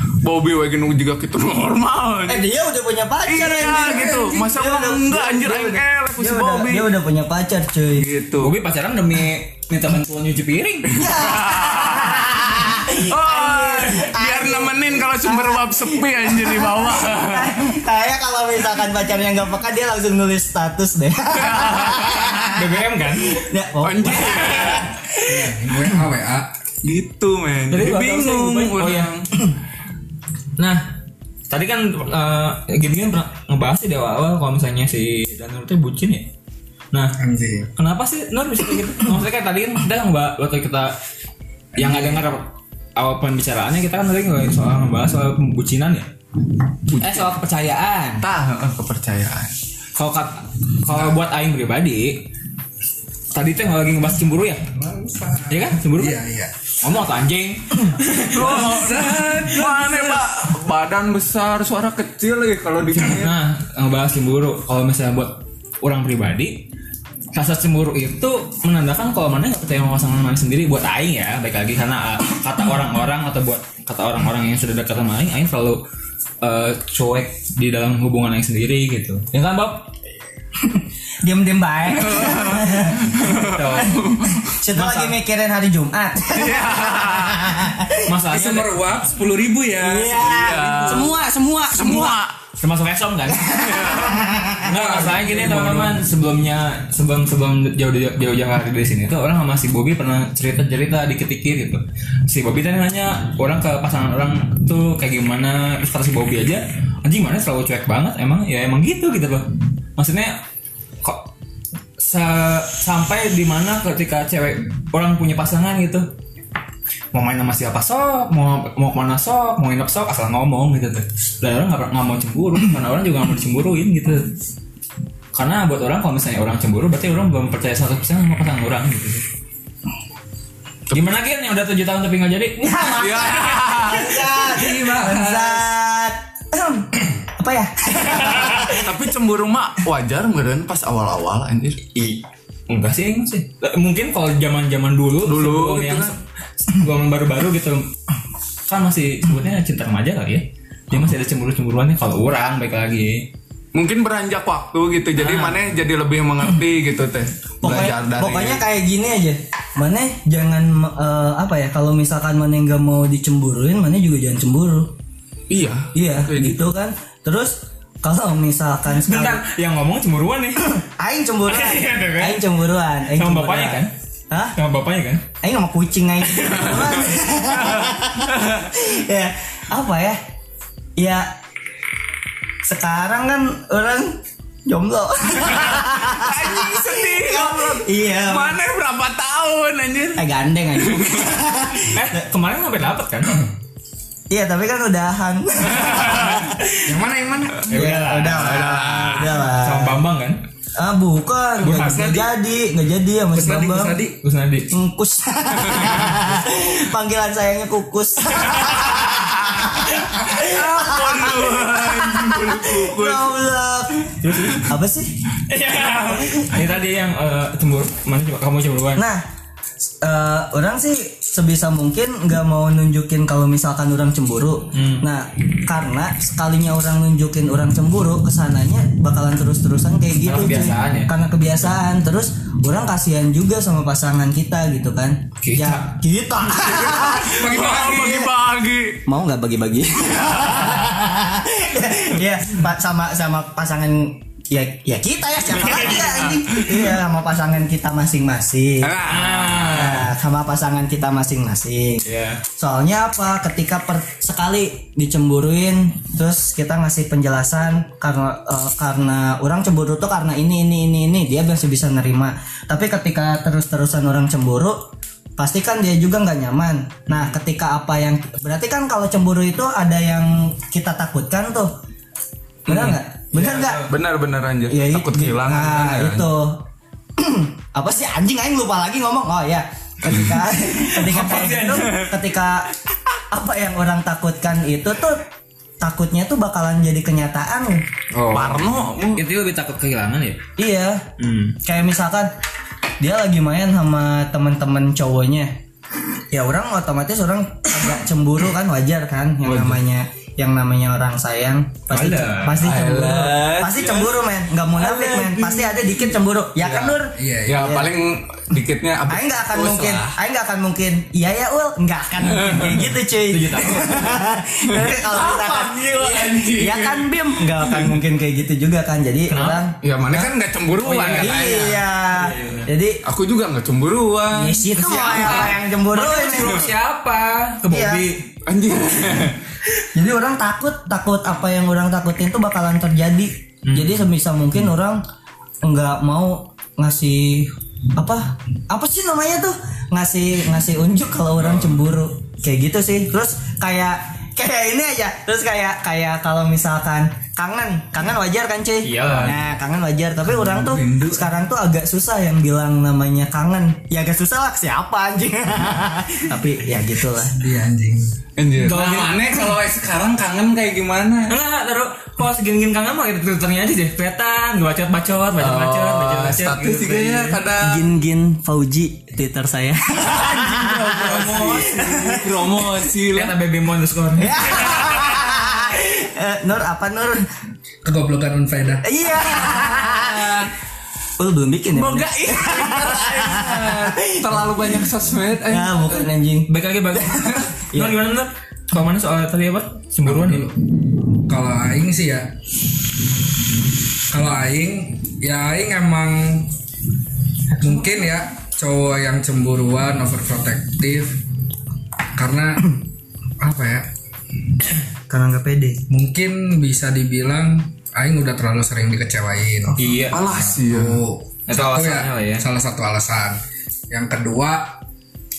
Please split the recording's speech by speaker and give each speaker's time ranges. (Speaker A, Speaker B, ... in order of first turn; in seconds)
Speaker A: 0.2-2.5, 3.2-6.9, 8.0-8.5, 11.0-17.7, 21.3-22.4, 23.8-24.9, 26.8-29.3, 46.9-47.3, 48.2-49.5, 58.3-63.3, 81.9-84.5, 86.3-87.5, 90.2-91.2, 91.7-92.3, 93.5-94.3, 132.9-135.3, 138.4-141.8, 145.2-146.1, 153.7-158.6, 165.5-166.6, 177.5-178.7, 185.4-191.4, 195.7-196.4, 198.2-199.4, 205.7-206.0, 208.6-213.4, 236.7-239.0, 240.2-240.7, 245.7-246.9, 248.8-249.9, 273.9-276.3, 288.3-289.2, 302.6-304.2, 304.8-305.7, 307.4-310.1, 312.2-312.9, 314.7-318.0, 319.8-321.7, 323.0-325.5, 328.4-329.4, 350.3-351.3, 358.4-361.4, 365.4-367.9, 370.0-373.3, 379.4-380.5, 381.7-386.1, 410.1-411.0
Speaker B: 2.3-8.1, 10.9-22.8, 23.3-25.2, 80.6-88.1, 89.8-92.2, 93.4-94.7, 132.6-138.9, 157.6-164.9, 165.9-169.4, 170.7-174.5, 175.4-180.2, 181.0-181.3, 182.6-188.6, 190.2-192.2, 194.3-196.8, 197.7-200.0, 200.8-203.9, 204.7-215.2, 215.9-216.6, 218.9-219.2, 220.0-238.3, 239.1-249.0, 249.6-252.0, 252.6-264.8, 265.4-271.7, 272.7-273.8, 274.7-276.6, 277.2-282.7, 283.3-285.2, 285.8-287.8, 290.6-291.1, 291.6-292.3, 293.0-295.6, 296.3-307.9, 309.1-320.3, 321.1-323.0, 324.3-326.7, 327.7-328.0, 329.9-335.0, 335.6-357.4, 367.6-372.4, 374.2-377.2, 378.8-380.5, 381.2-384.6, 385.5-387.9, 405.1-405.8
Speaker C: 3.9-4.4, 25.2-26.5, 37.2-37.7, 41.8-42.2, 54.7-56.5, 58.5-59.9, 88.3-91.1, 94.7-96.0, 134.7-135.4, 196.8-197.7, 203.3-204.2, 237.3-238.2, 307.1-307.8, 357.4-358.1, 377.8-378.9, 390.0-392.3, 394.1-396.5, 397.5-401.2, 402.1-402.7, 403.4-403.9, 405.9-414.8
Speaker D: 8.4-11.0, 22.4-23.5, 27.7-29.1, 30.6-30.9, 31.5-36.3, 36.9-37.2, 37.8-41.0, 41.8-46.1, 47.0-48.2, 50.0-52.3, 53.3-54.7, 55.5-56.2, 56.8-60.1, 62.9-66.7, 67.3-75.8, 76.4-79.9, 83.4-84.0, 84.7-85.2, 88.0-88.8, 92.6-93.7, 94.6-109.5, 110.0-110.4, 111.0-111.3, 112.0-116.1, 117.1-124.3, 125.3-129.2, 130.9-132.9, 141.9-147.9, 148.7-153.3, 155.2-155.6, 169.0-170.6, 171.5-172.5, 173.1-173.9, 174.5-175.2, 191.8-193.4, 197.7-198.5, 199.5-200.4, 201.6-202.3, 204.2-204.7, 214.2-214.7, 215.5-219.0, 224.7-225.1, 230.2-231.1, 235.4-235.9, 249.0-250.1, 252.0-252.4, 267.1-267.4, 272.7-273.9, 280.6-282.0, 288.1-290.4, 291.2-291.6, 299.4-299.8, 301.9-302.8, 306.6-306.9, 313.3-314.2, 319.3-319.6, 320.8-322.7, 324.8-328.3, 333.6-334.1, 348.8-349.4, 358.6-359.4, 361.3-367.4, 370.8-372.1, 373.1-375.2, 386.5-390.5, 409.8-410.2, 411.5-412.4